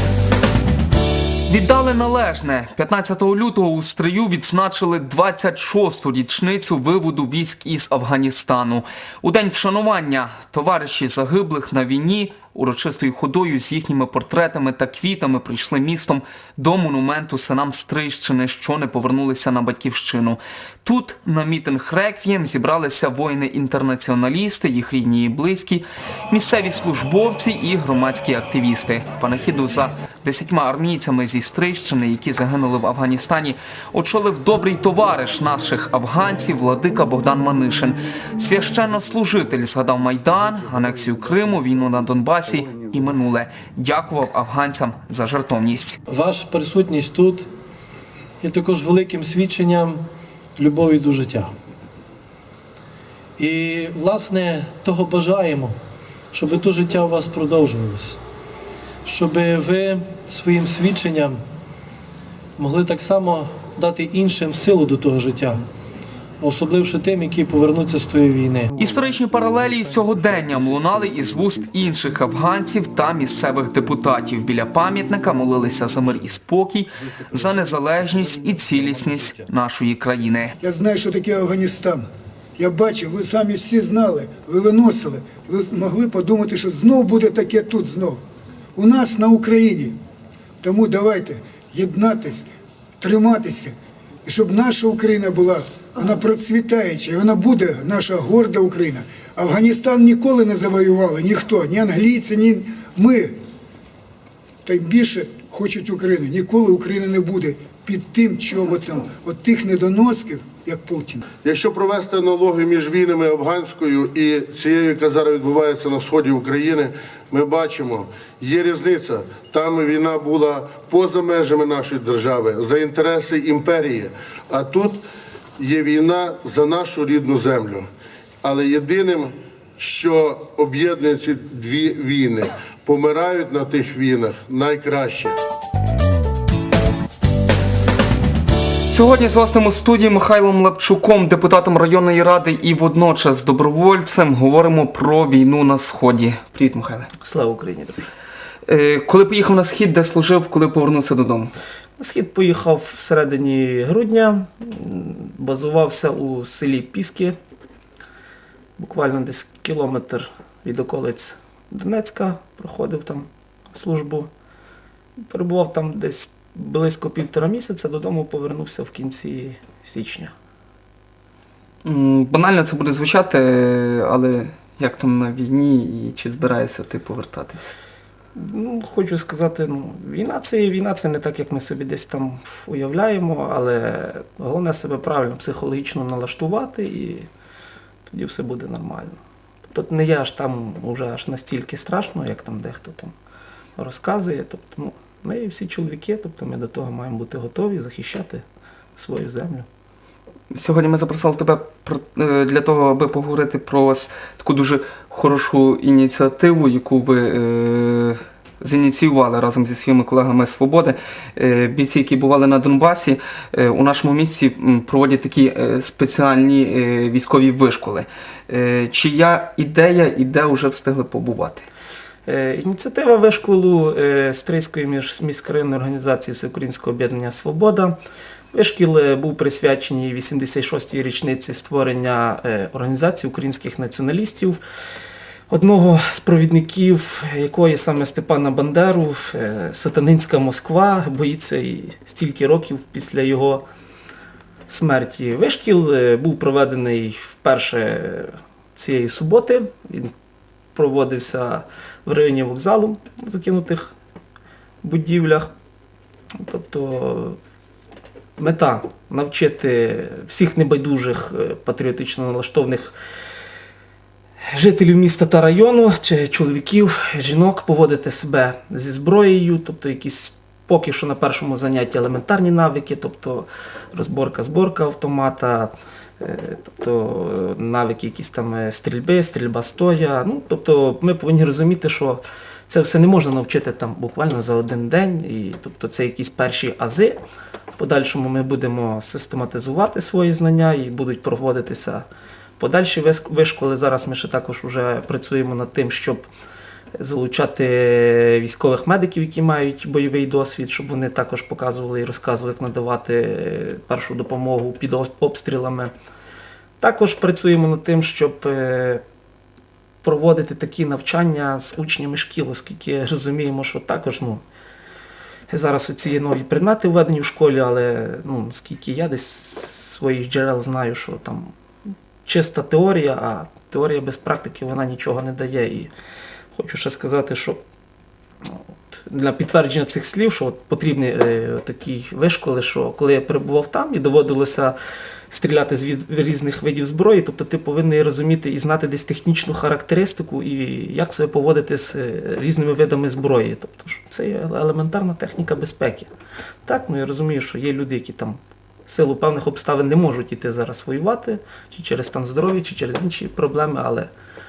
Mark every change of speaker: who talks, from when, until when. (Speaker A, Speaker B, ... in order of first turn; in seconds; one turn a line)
Speaker A: 1.5-46.0
Speaker B: 46.1-47.5
Speaker B: 48.4-50.0
Speaker B: 50.6-51.5
Speaker B: 53.4-55.8
Speaker B: 56.3-58.2
Speaker B: 59.0-61.4
Speaker B: 62.6-65.6
Speaker B: 66.4-68.7
Speaker A: 68.8-80.5
Speaker C: 80.6-88.2
Speaker C: 88.8-90.0
Speaker C: 90.6-92.5
Speaker C: 93.0-103.4
Speaker C: 104.6-111.2
Speaker D: 111.3-125.0
Speaker D: 125.6-127.9
Speaker D: 128.4-135.3
Speaker A: 138.9-147.1
Speaker E: 147.2-148.1
Speaker A: 148.7-151.5
Speaker E: 152.0-157.4
Speaker E: 158.8-164.3
Speaker E: 165.3-170.3
Speaker A: 171.8-177.7
Speaker E: 178.3-187.3
Speaker E: 188.1-193.1
Speaker E: 193.8-198.4
Speaker E: 198.9-199.7
Speaker A: 200.5-221.7
Speaker E: 222.2-228.0
Speaker E: 228.5-234.6
Speaker E: 235.5-243.6
Speaker E: 244.7-250.1
Speaker E: 250.7-253.9
Speaker E: 254.8-255.5
Speaker E: 256.4-257.4
Speaker E: 258.4-262.9
Speaker E: 264.5-287.2
Speaker E: 287.7-292.1
Speaker E: 292.6-296.2
Speaker E: 297.0-305.9
Speaker E: 306.8-309.0
Speaker E: 310.0-314.4
Speaker E: 315.5-321.5
Speaker E: 322.2-325.9
Speaker E: 326.5-327.6
Speaker E: 328.4-334.8
Speaker E: 335.3-346.1
Speaker E: 346.6-354.1